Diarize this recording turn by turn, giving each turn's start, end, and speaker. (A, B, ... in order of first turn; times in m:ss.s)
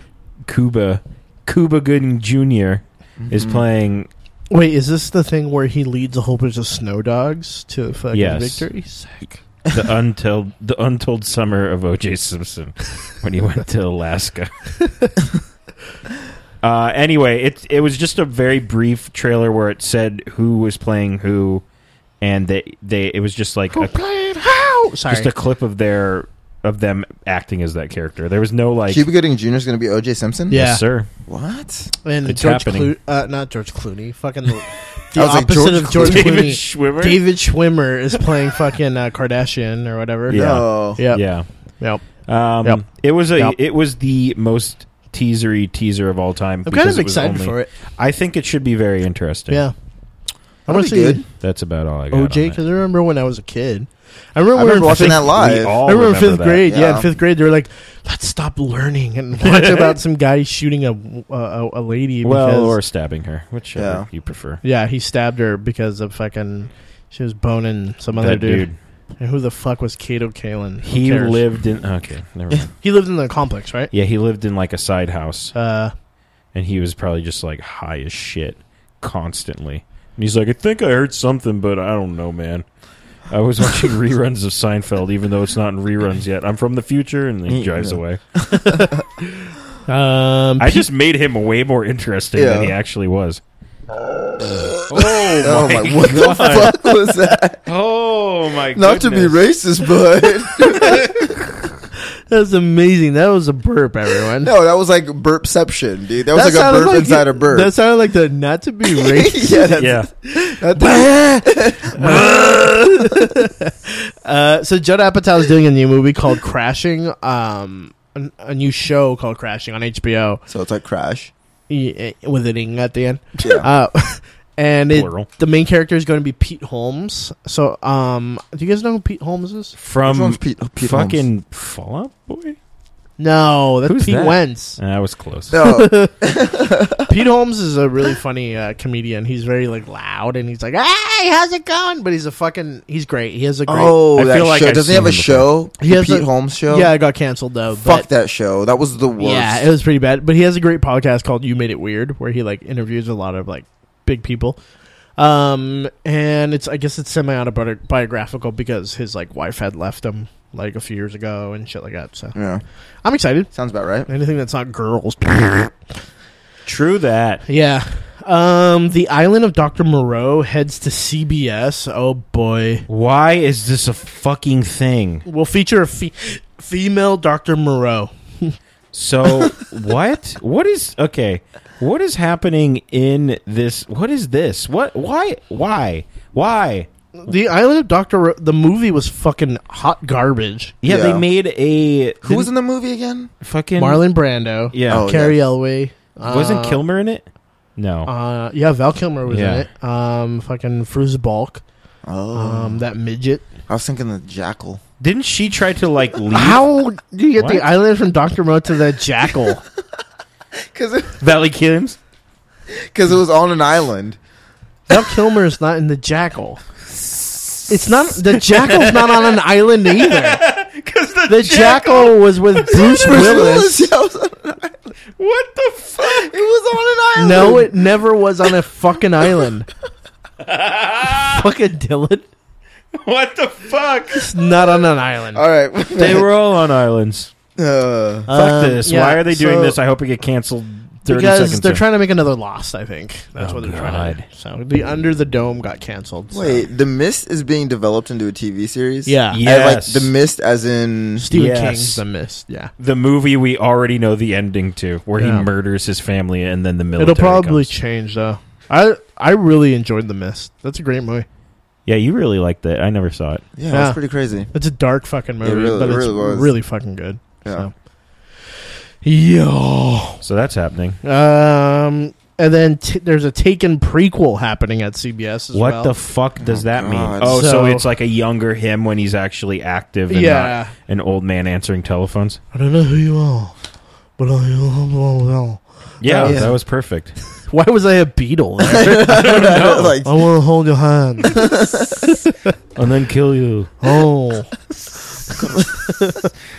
0:00.5-0:04.1 A
0:03.2-0:03.6 B
0:04.5-0:09.4 C
0:08.1-0:08.7 A
0:09.7-0:14.5 A
0:14.8-0:15.1 C
0:16.6-0:21.6 A
0:22.2-0:23.9 A
0:23.7-0:25.3 C
0:25.1-0:29.0 A
0:28.9-0:30.6 B
0:30.5-0:30.8 C
0:30.5-0:31.1 A
0:31.3-0:31.9 B
0:32.0-0:41.2 C
0:32.2-0:32.9 A
0:35.1-0:36.4 B
0:36.0-0:37.2 A
0:40.3-0:41.0 B
0:40.3-0:41.5 A
0:41.8-0:42.1 C
0:42.2-0:49.6 A
0:42.6-0:43.6 C
0:46.6-0:47.7 C
0:50.7-0:51.2 B
0:50.7-0:51.2 C
0:51.4-0:52.6 A
0:52.1-1:02.8 C
0:54.5-0:55.8 B
0:54.9-0:56.6 A
0:56.6-0:57.1 B
0:59.4-1:00.0 A
1:02.2-1:04.6 A
1:03.8-1:04.1 B
1:04.6-1:08.7 C
1:08.1-1:08.8 A
1:09.2-1:11.4 C
1:10.8-1:12.7 A
1:12.8-1:13.9 C
1:13.9-1:15.5 A
1:15.5-1:15.9 C
1:16.5-1:22.6 A
1:23.3-1:28.2 A
1:27.5-1:29.0 B
1:28.5-1:30.9 C
1:30.6-1:33.4 A
1:32.3-1:32.7 B
1:34.1-1:37.6 B
1:34.4-1:36.8 A
1:37.6-1:39.4 A
1:38.7-1:41.3 B
1:40.6-1:41.0 C
1:40.7-1:41.5 A
1:42.3-1:44.5 C
1:44.3-1:47.7 B
1:46.3-1:49.7 C
1:48.9-1:53.2 B
1:49.7-1:50.1 A
1:50.3-2:00.4 C
2:00.5-2:01.3 B
2:01.7-2:09.7 C
2:03.4-2:03.7 B
2:04.9-2:05.3 A
2:09.8-2:12.6 A
2:10.0-2:11.2 B
2:13.2-2:14.8 C
2:13.9-2:15.5 A
2:15.5-2:17.1 B
2:15.6-2:16.1 C
2:17.1-2:24.0 C
2:23.7-2:26.9 B
2:24.2-2:25.5 A
2:25.8-2:28.0 C
2:27.8-2:29.7 B
2:29.2-2:34.6 C
2:35.2-2:42.3 C
2:42.3-2:42.6 B
2:43.0-2:43.5 C
2:43.5-2:44.1 B
2:44.1-2:45.7 C
2:46.6-2:47.4 A
2:47.5-2:52.8 C
2:52.9-2:55.2 A
2:55.2-2:58.6 C
2:58.9-3:06.9 A
3:07.2-3:10.7 C
3:10.8-3:12.5 A
3:10.8-3:11.2 B
3:12.2-3:13.3 B
3:13.4-3:14.0 A
3:13.8-3:16.8 C
3:14.7-3:15.1 A
3:14.9-3:15.4 B
3:16.2-3:18.1 A
3:18.1-3:21.6 C
3:19.3-3:19.6 A
3:22.0-3:22.8 B
3:22.3-3:23.4 C
3:23.7-3:24.8 B
3:25.0-3:26.6 A
3:26.3-3:29.6 C
3:27.4-3:27.6 A
3:30.7-3:31.2 B
3:31.2-3:32.0 A
3:32.7-3:34.2 B
3:34.9-3:36.6 C
3:37.2-3:39.4 A
3:37.7-3:40.4 C
3:39.9-3:43.5 A
3:41.3-3:43.9 C
3:42.7-3:44.9 B
3:45.2-3:46.3 A
3:46.0-3:48.0 B
3:47.2-3:49.7 C
3:50.4-3:51.5 A
3:51.1-3:52.2 C
3:52.9-3:54.3 A
3:54.1-3:55.4 C
3:55.3-3:56.3 B
3:55.9-3:57.3 A
3:57.6-3:58.3 B
3:58.3-3:59.8 C
3:58.3-4:01.8 A
4:01.0-4:06.6 C
4:03.4-4:04.2 A
4:06.3-4:11.3 B
4:09.0-4:09.4 C
4:09.3-4:10.1 A
4:11.2-4:12.7 C
4:11.3-4:12.0 A
4:12.8-4:17.7 A
4:15.2-4:15.5 C
4:17.0-4:21.2 C
4:21.8-4:23.4 A
4:23.6-4:24.5 B
4:23.7-4:24.0 C
4:24.5-4:27.7 C
4:25.4-4:26.5 B
4:27.4-4:27.7 B
4:29.0-4:30.2 C
4:30.2-4:31.0 A
4:31.0-4:35.9 C
4:35.5-4:42.4 A
4:36.4-4:37.4 B
4:37.2-4:37.8 C
4:40.1-4:40.7 C
4:42.5-4:43.5 C
4:44.2-4:46.4 C
4:46.0-4:47.2 A
4:46.2-4:46.6 B
4:47.5-4:52.5 C
4:48.7-4:50.3 B
4:49.1-4:50.0 A
4:51.3-4:52.0 B
4:52.8-4:53.7 A
4:53.8-4:54.5 C
4:55.3-4:56.3 C